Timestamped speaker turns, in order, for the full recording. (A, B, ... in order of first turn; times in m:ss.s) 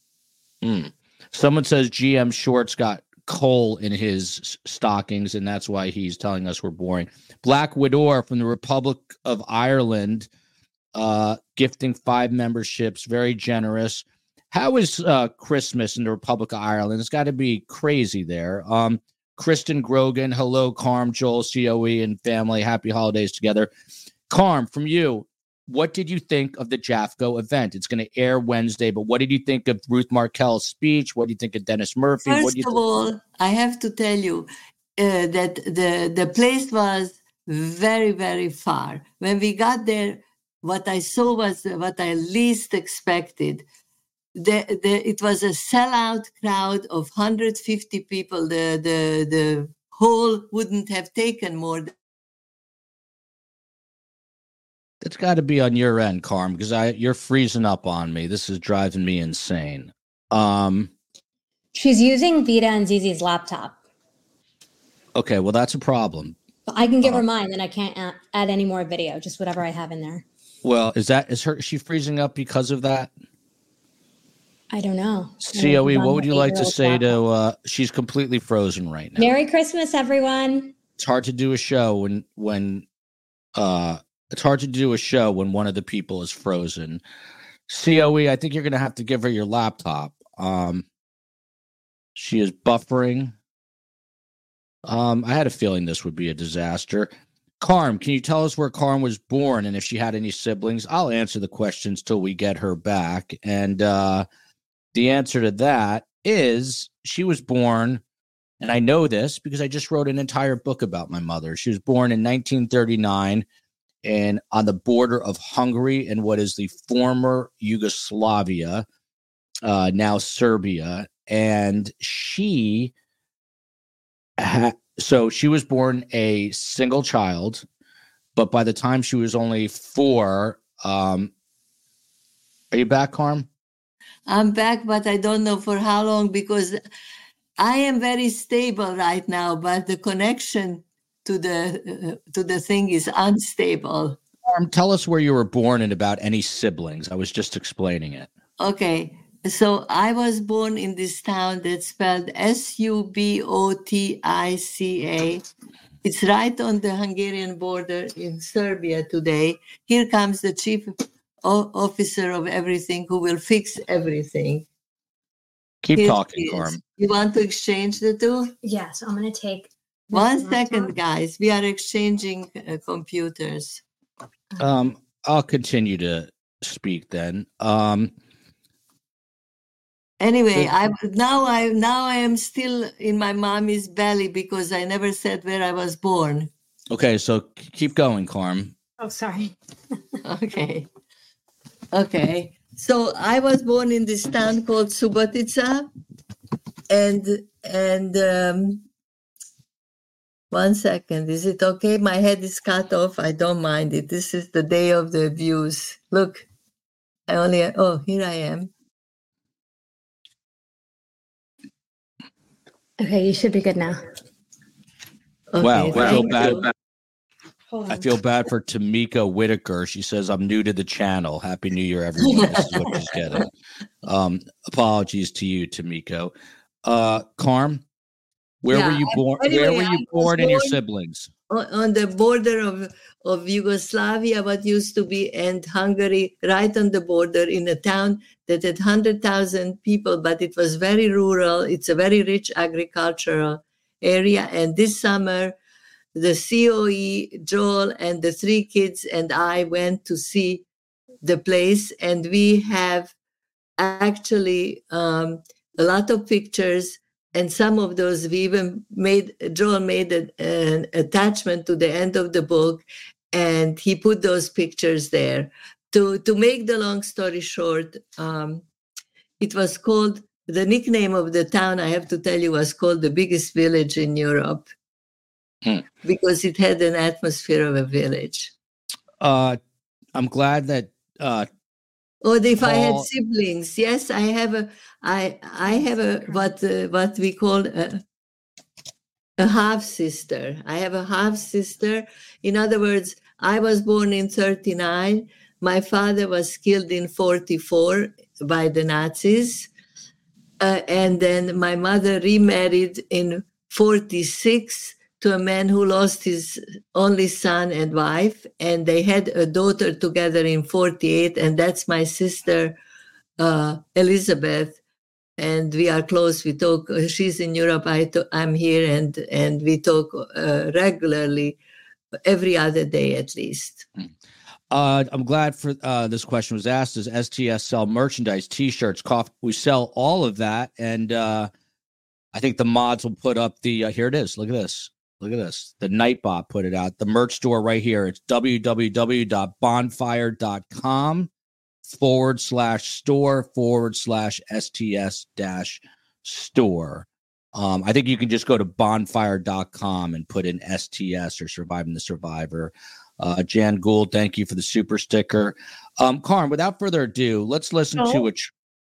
0:00.6-0:10.3 A
0:10.9-0:23.7 A
0:24.3-0:32.8 A
0:32.2-0:34.5 B
0:35.0-0:43.6 B
0:44.3-0:51.9 B
0:55.0-1:00.9 A
1:01.7-1:03.8 C
1:05.1-1:06.4 A
1:06.7-1:10.2 C
1:10.6-1:13.1 A
1:14.7-1:17.1 C
1:15.4-1:19.3 A
1:19.2-1:20.7 C
1:21.0-1:22.8 A
1:23.6-1:27.0 A
1:27.7-1:30.8 A
1:32.1-1:33.3 A
1:34.8-1:44.2 A
1:44.9-1:48.0 A
1:48.6-1:53.4 A
1:54.0-1:58.8 A
1:59.6-2:02.9 A
2:04.4-2:07.6 A
2:08.4-2:11.3 A
2:12.7-2:13.5 A
2:14.3-2:16.8 B
2:17.6-2:24.2 B
2:24.4-2:28.3 A
2:28.6-2:35.4 B
2:36.0-2:40.9 B
2:41.4-2:44.6 B
2:45.8-2:46.8 A
2:46.0-2:48.5 B
2:48.6-2:50.9 C
2:50.1-2:53.8 B
2:54.6-2:58.1 A
3:00.2-3:06.5 B
3:06.9-3:08.7 A
3:09.0-3:09.5 C
3:10.2-3:10.9 B
3:11.9-3:15.9 B
3:16.9-3:18.8 B
3:20.5-3:26.4 B
3:27.3-3:28.7 B
3:33.0-3:34.1 C
3:35.5-3:36.7 B
3:35.6-3:36.7 A
3:37.7-3:38.0 C
3:37.9-3:43.5 A
3:42.2-3:42.7 B
3:44.0-3:46.3 A
3:46.8-3:47.8 A
3:48.6-3:51.3 A
3:48.7-3:50.8 B
3:51.5-4:05.5 B
4:06.2-4:10.6 B
4:11.2-4:13.1 B
4:13.8-4:28.6 B
4:29.4-4:34.7 B
4:36.0-4:38.5 B
4:39.2-4:39.6 A
4:40.1-4:41.5 A
4:42.2-4:48.0 B
4:42.6-4:43.1 A
4:49.4-4:59.7 B
5:00.6-5:12.8 B
5:13.4-5:14.8 B
5:15.4-5:21.6 B
5:22.2-5:23.9 B
5:24.7-5:31.5 A
5:32.3-5:41.3 A
5:41.9-5:58.5 A
5:58.0-5:58.2 B